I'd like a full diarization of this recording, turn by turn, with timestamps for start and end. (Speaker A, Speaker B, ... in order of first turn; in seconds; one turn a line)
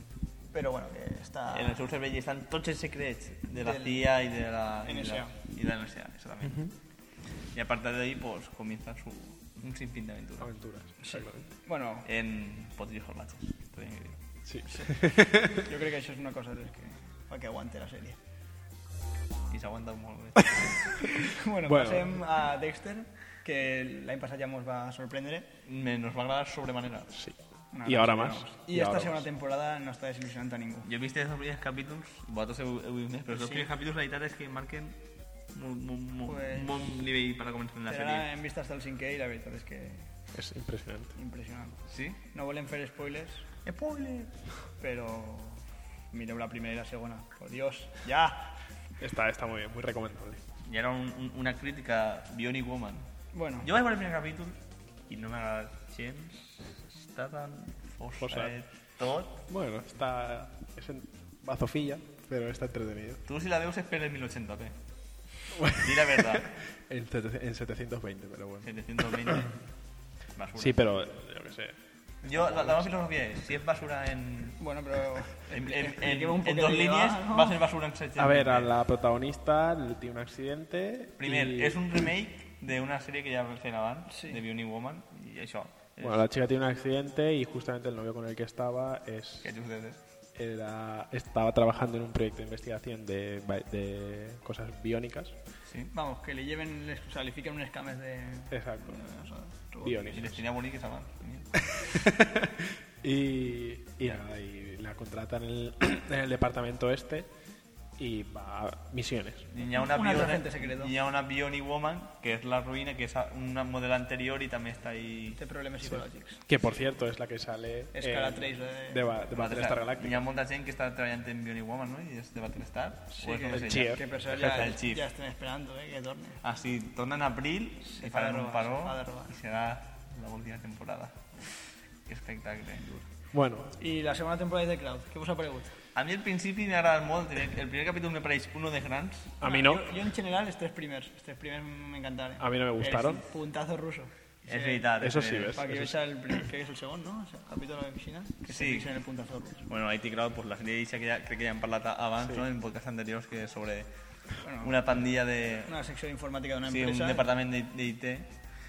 Speaker A: 0.5-1.8
Speaker B: 1.5-6.7
Speaker A: 3.6-4.1
Speaker A: 4.8-5.3
Speaker C: 6.4-6.7
Speaker B: 7.5-10.5
Speaker C: 10.4-11.5
Speaker A: 11.0-12.1
Speaker B: 12.0-14.2
Speaker C: 14.4-15.7
Speaker A: 15.5-18.2
Speaker B: 19.5-20.8
Speaker C: 20.4-22.2
Speaker A: 20.9-25.5
Speaker B: 25.6-27.1
Speaker C: 27.1-29.3
Speaker A: 27.7-30.9
Speaker B: 30.8-35.0
Speaker A: 33.3-33.7
Speaker B: 35.5-38.3
Speaker A: 36.2-37.0
Speaker A: 37.9-40.1
Speaker C: 40.3-41.1
Speaker A: 41.1-43.5
Speaker B: 41.9-42.2
Speaker B: 43.6-44.3
Speaker A: 44.8-48.5
Speaker C: 49.0-50.4
Speaker B: 50.6-53.1
Speaker A: 53.3-53.7
Speaker B: 53.6-59.4
Speaker C: 58.2-58.5
Speaker C: 59.5-63.2
Speaker B: 63.2-64.8
Speaker C: 65.5-69.5
Speaker B: 65.7-66.5
Speaker B: 68.6-69.5
Speaker B: 70.3-70.8
Speaker C: 70.5-72.9
Speaker B: 72.2-74.6
Speaker A: 74.6-77.6
Speaker B: 75.5-78.7
Speaker C: 78.2-82.0
Speaker B: 81.2-86.2
Speaker A: 84.1-84.4
Speaker C: 86.0-89.5
Speaker B: 89.4-90.0
Speaker C: 90.3-95.4
Speaker B: 95.7-95.9
Speaker A: 95.9-100.4
Speaker C: 98.5-99.0
Speaker C: 99.8-100.3
Speaker B: 100.0-101.5
Speaker C: 101.8-107.3
Speaker C: 108.0-109.5
Speaker B: 109.5-115.4
Speaker A: 109.7-110.9
Speaker A: 115.3-116.4
Speaker C: 116.5-120.2
Speaker A: 117.9-119.1
Speaker B: 119.3-125.1
Speaker A: 123.2-126.4
Speaker C: 123.5-124.0
Speaker B: 126.4-131.5
Speaker A: 127.8-129.4
Speaker B: 132.1-133.1
Speaker C: 133.3-133.8
Speaker A: 133.8-135.8
Speaker B: 135.9-139.4
Speaker C: 139.4-139.9
Speaker A: 139.4-144.9
Speaker C: 142.4-143.2
Speaker B: 144.5-145.6
Speaker C: 145.0-146.0
Speaker A: 145.5-149.7
Speaker B: 148.5-148.9
Speaker B: 149.7-153.9
Speaker A: 154.4-154.8
Speaker B: 154.6-155.7
Speaker A: 155.6-157.3
Speaker B: 156.6-158.3